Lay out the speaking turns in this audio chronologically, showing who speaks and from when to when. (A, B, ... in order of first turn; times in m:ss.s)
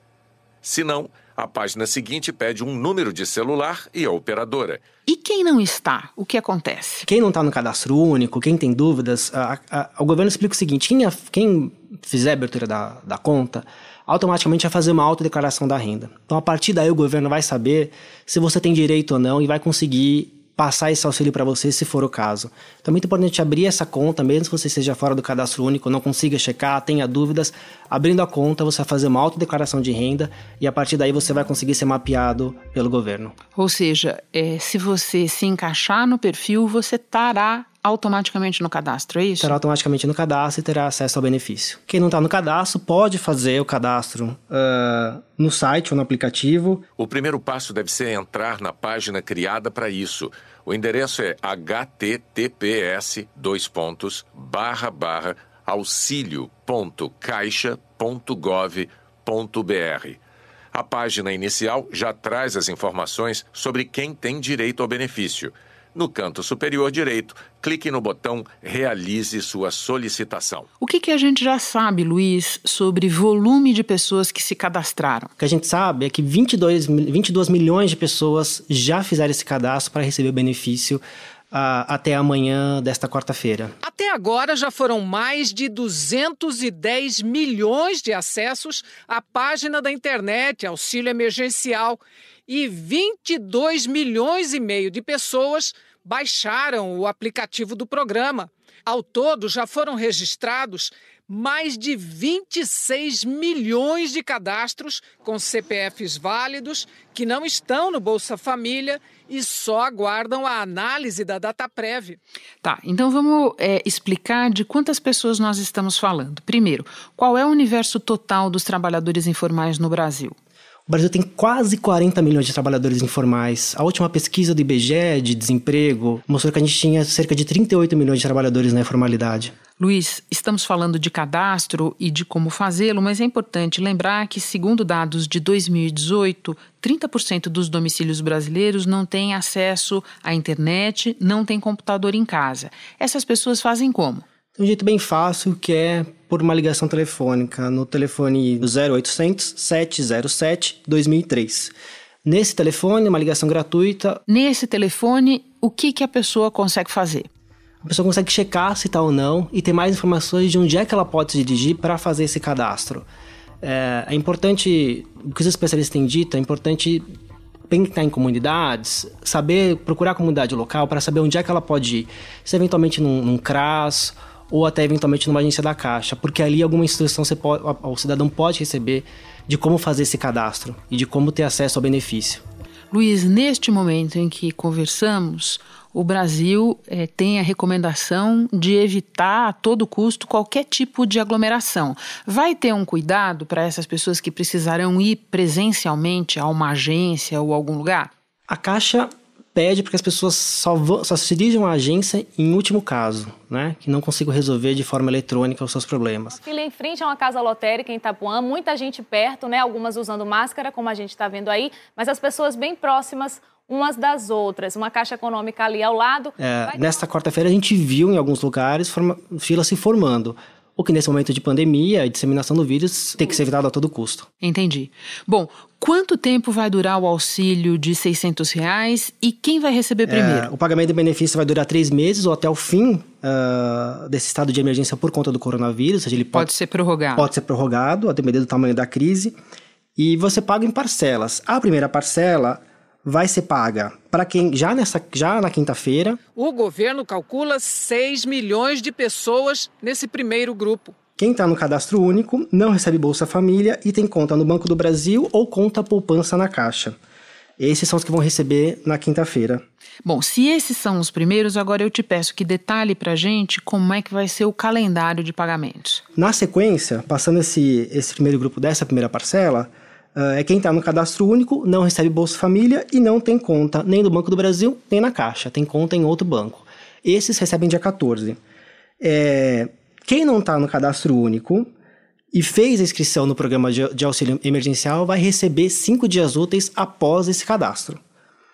0:00.6-0:04.8 A
0:05.1-0:07.1 B
0:07.1-0:33.4 C
0:33.6-0:39.6 B
0:39.4-0:46.8 C
0:47.0-1:00.2 A
1:00.7-1:10.7 A
1:10.8-1:15.3 B
1:15.4-1:23.7 C
1:23.8-1:52.2 D
1:52.6-2:00.4 B
2:00.9-2:09.5 C
2:09.8-2:24.2 B
2:24.6-2:31.7 C
2:32.2-2:34.2 C
2:34.3-2:37.3 B
2:37.8-2:43.1 C
2:43.6-2:47.1 C
2:47.7-3:02.4 C
3:02.9-3:18.1 B
3:18.5-3:26.4 C
3:26.3-3:37.0 E
3:36.4-3:44.3 C
3:44.4-3:50.5 B
3:50.1-3:56.5 C
3:56.3-3:57.3 B
3:57.2-3:59.4 C
4:00.0-4:06.2 C
4:06.4-4:11.0 D
4:11.2-4:17.0 C
4:17.6-4:19.6 C
4:20.0-4:26.0 B
4:26.1-4:38.4 C
4:39.0-4:41.7 C
4:42.3-4:48.0 C